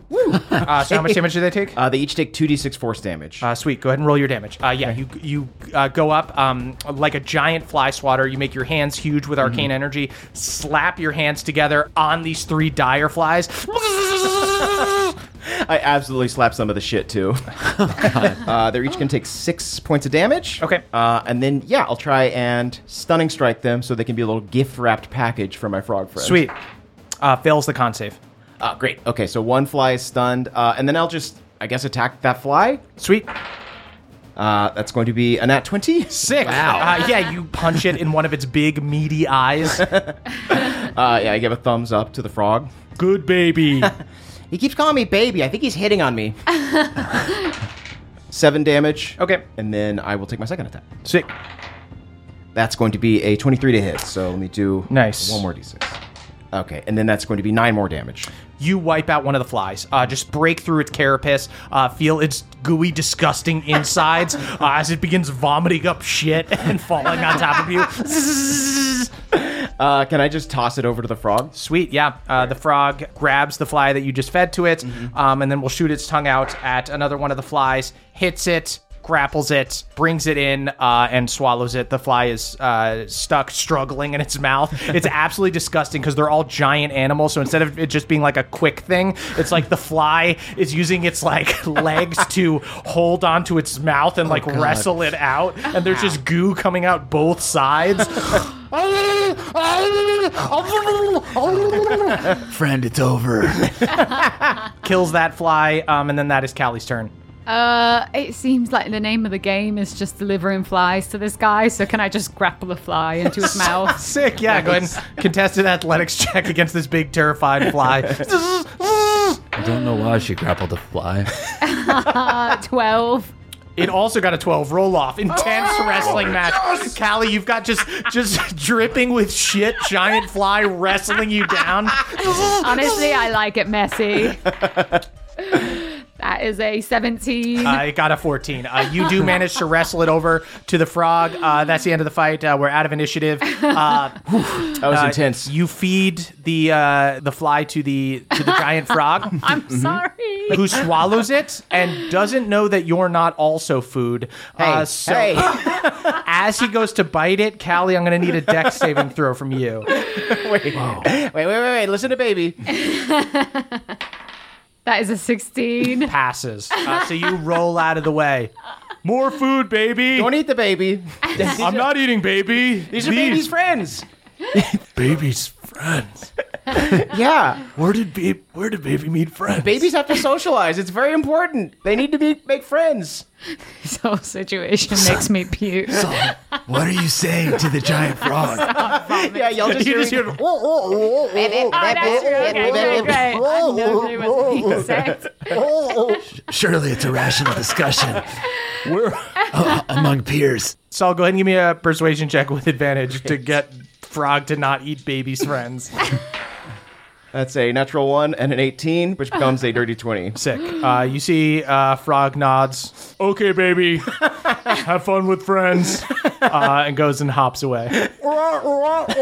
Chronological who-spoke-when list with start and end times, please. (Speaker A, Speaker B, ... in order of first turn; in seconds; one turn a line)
Speaker A: 0.1-1.2
Speaker B: 0.3-1.8
Speaker A: 1.8-3.5
Speaker B: 3.4-15.0
Speaker A: 9.4-9.7
Speaker A: 15.4-26.5
Speaker C: 17.9-18.4
Speaker B: 26.2-26.6
Speaker B: 27.2-28.2
Speaker A: 28.6-32.9
Speaker B: 33.0-33.3
Speaker A: 34.4-37.1
Speaker B: 36.1-39.9
Speaker C: 36.4-37.0
Speaker A: 39.7-42.7
Speaker B: 43.0-43.9
Speaker A: 44.5-47.0
Speaker A: 48.3-50.9
Speaker B: 49.2-49.4
Speaker A: 52.5-56.0
Speaker B: 54.9-55.5
Speaker A: 56.5-58.3
Speaker B: 58.6-69.1
Speaker A: 69.3-71.5
Speaker B: 71.5-102.4
Speaker A: 95.8-96.2
Speaker D: 101.5-101.8
Speaker D: 102.4-103.8
Speaker C: 102.8-103.3
Speaker B: 104.8-107.1
Speaker E: 107.5-114.1
Speaker B: 113.4-119.4
Speaker C: 119.6-121.5
Speaker E: 121.6-123.3
Speaker B: 123.8-132.6
Speaker E: 132.2-134.7
Speaker E: 135.4-137.9
Speaker B: 137.6-149.5
Speaker A: 144.7-145.5
Speaker E: 149.3-150.8
Speaker A: 149.7-150.0
Speaker B: 150.5-159.9
Speaker A: 154.6-155.9
Speaker A: 159.9-162.7
Speaker E: 162.7-164.0
Speaker E: 164.8-166.1
Speaker B: 166.0-168.5
Speaker F: 169.1-169.8
Speaker B: 169.1-170.3
Speaker A: 170.1-171.8
Speaker F: 171.4-173.2
Speaker B: 171.4-172.1
Speaker A: 172.9-174.8
Speaker B: 173.0-173.4
Speaker F: 175.0-176.9
Speaker A: 176.8-177.7
Speaker F: 177.7-179.9
Speaker A: 179.5-183.2
Speaker E: 183.6-186.3
Speaker C: 186.0-188.6
Speaker D: 186.0-188.6
Speaker E: 188.2-189.9
Speaker A: 188.6-190.4
Speaker B: 189.7-191.1
Speaker A: 191.1-193.5
Speaker E: 191.3-196.2
Speaker D: 196.3-198.2
Speaker C: 196.5-198.2
Speaker F: 198.8-199.3
Speaker D: 199.5-200.7
Speaker B: 200.9-206.1
Speaker A: 207.3-210.4
Speaker B: 210.3-218.1